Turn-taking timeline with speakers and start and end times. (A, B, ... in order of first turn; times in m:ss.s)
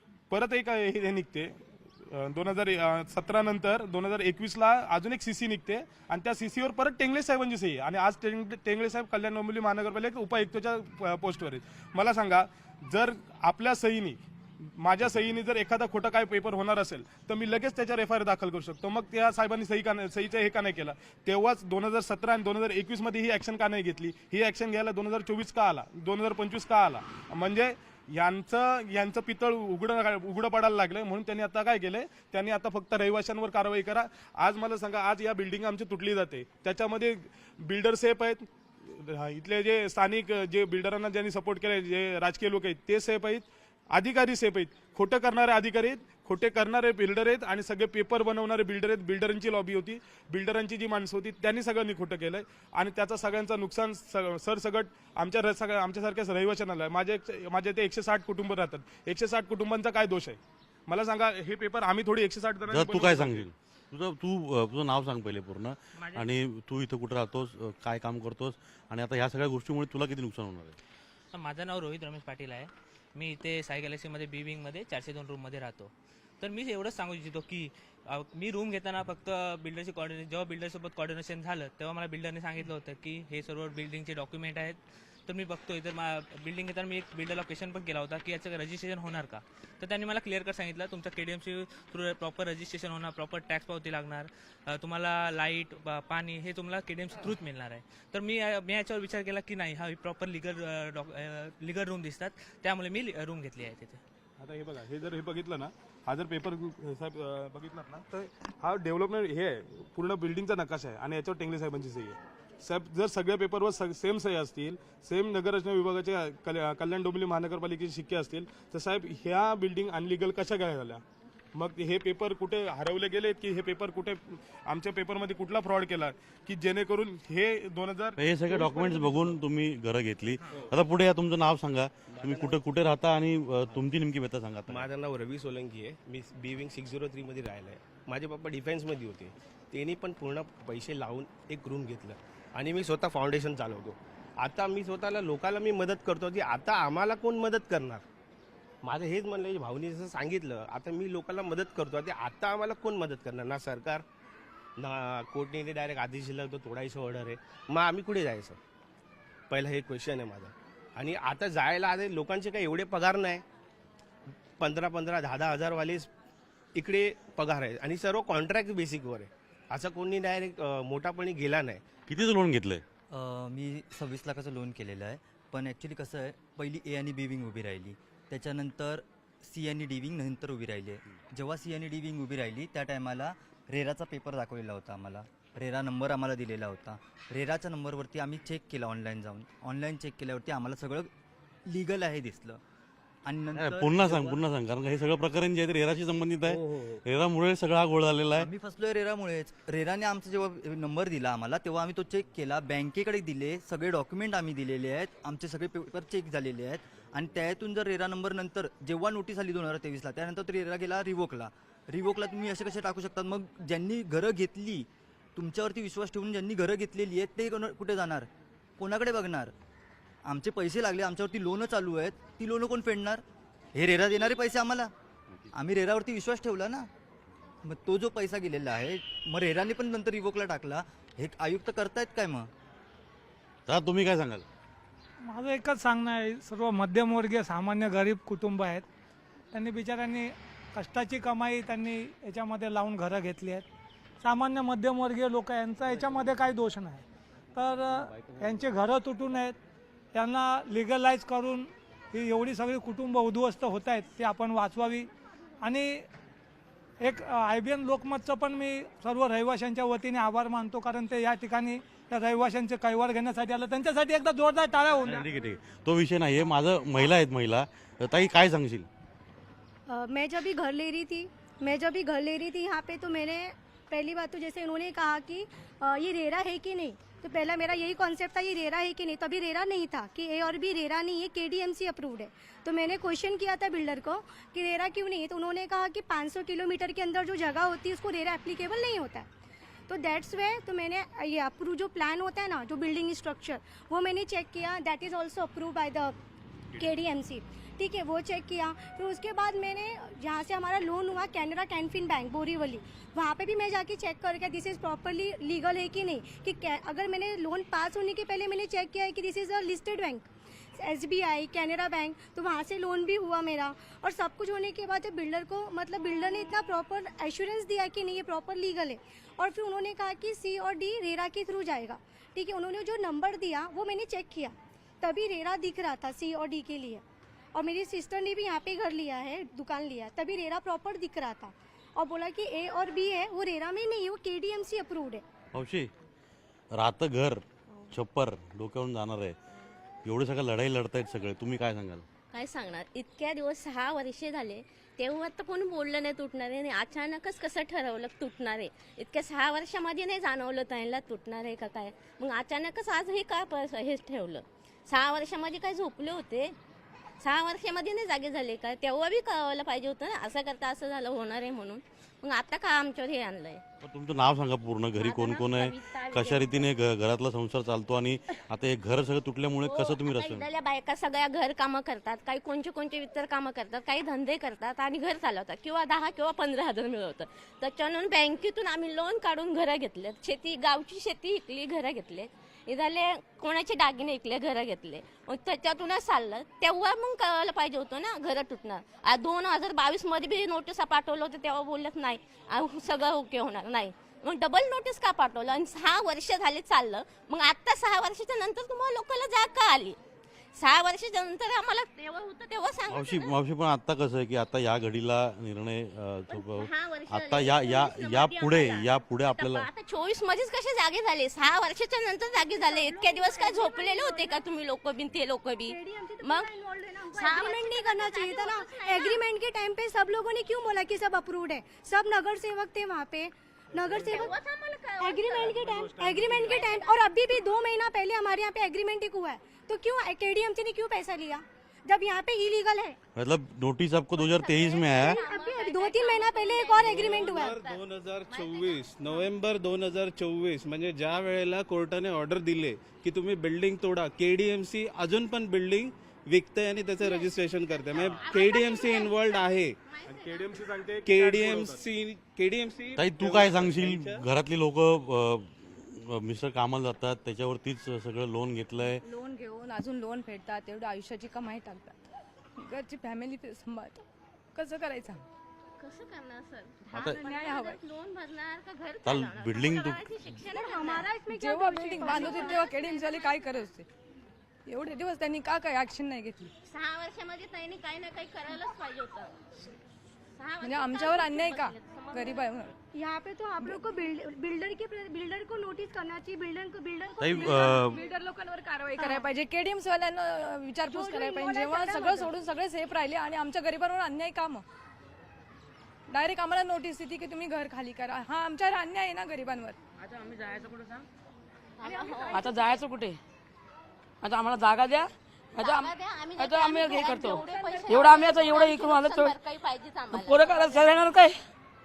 0:00.3-1:03.5 A
1:02.7-1:10.8 B
1:06.0-1:06.3 C
1:11.3-1:44.0 C
1:44.4-2:01.0 A
2:01.6-2:09.3 A
2:08.2-2:14.9 B
2:12.1-2:12.6 D
2:14.7-2:28.0 D
2:28.8-2:34.0 D
2:34.8-2:38.6 D
2:39.5-2:43.4 D
2:44.6-2:46.1 D
2:46.8-2:51.9 D
2:52.1-2:52.8 B
2:53.1-3:11.1 E
3:11.7-3:12.6 E
3:13.2-3:14.4 E
3:13.6-3:18.5 B
3:16.5-3:17.0 D
3:18.4-3:39.5 E
3:40.2-3:43.2 E
3:43.8-3:44.9 E
3:45.5-3:46.9 E
3:47.6-3:52.5 E
3:53.7-3:54.5 B
3:55.3-3:58.9 F
3:59.5-4:03.7 F
4:04.2-4:07.0 F
4:07.6-4:09.6 F
4:10.1-4:15.1 F
4:15.6-4:16.1 F
4:17.0-4:25.3 F
4:25.0-4:28.9 B
4:29.9-4:49.3 G
4:49.9-4:56.2 G
4:56.8-5:27.0 G
5:27.5-5:35.2 G
5:35.5-5:35.9 B
5:36.7-5:39.4 B
5:40.0-5:42.0 B
5:42.3-5:56.6 H
5:57.2-6:03.6 H
6:03.8-6:10.5 B
6:05.0-6:06.7 H
6:09.6-6:40.0 H
6:40.6-6:43.4 H
6:42.9-6:49.7 B
6:46.3-6:56.5 H
6:52.6-6:54.4 G
6:55.7-7:04.4 G
6:57.1-6:59.2 H
7:03.7-7:04.3 A
7:03.9-7:07.1 H
7:05.0-7:13.0 G
7:05.4-7:06.7 A
7:13.2-7:15.2 B
7:14.2-7:19.3 H
7:14.9-7:17.6 G
7:16.8-7:29.8 I
7:27.0-7:27.3 H
7:27.9-7:30.6 H
7:30.1-7:31.8 A
7:31.1-7:34.2 I
7:33.0-7:39.0 B
7:39.0-7:42.0 J
7:42.6-7:44.0 J
7:44.6-7:45.2 J
7:45.8-7:51.1 H
7:46.9-7:47.2 B
7:47.0-7:47.8 J
7:49.0-7:50.1 B
7:50.5-7:52.7 G
7:51.3-7:53.9 J
7:52.0-7:53.6 H
7:54.7-7:56.5 J
7:56.7-7:59.3 H
8:00.4-8:02.5 H
8:00.6-8:02.7 J
8:02.9-8:08.1 G
8:07.2-8:08.0 B
8:07.4-8:14.6 J
8:09.0-8:09.3 G
8:10.8-8:12.3 G
8:16.1-8:19.8 J
8:21.8-8:22.5 H
8:21.8-8:22.8 G
8:22.3-8:23.2 K
8:24.2-8:29.4 K
8:25.6-8:31.1 H
8:26.9-8:28.5 G
8:30.1-8:31.4 K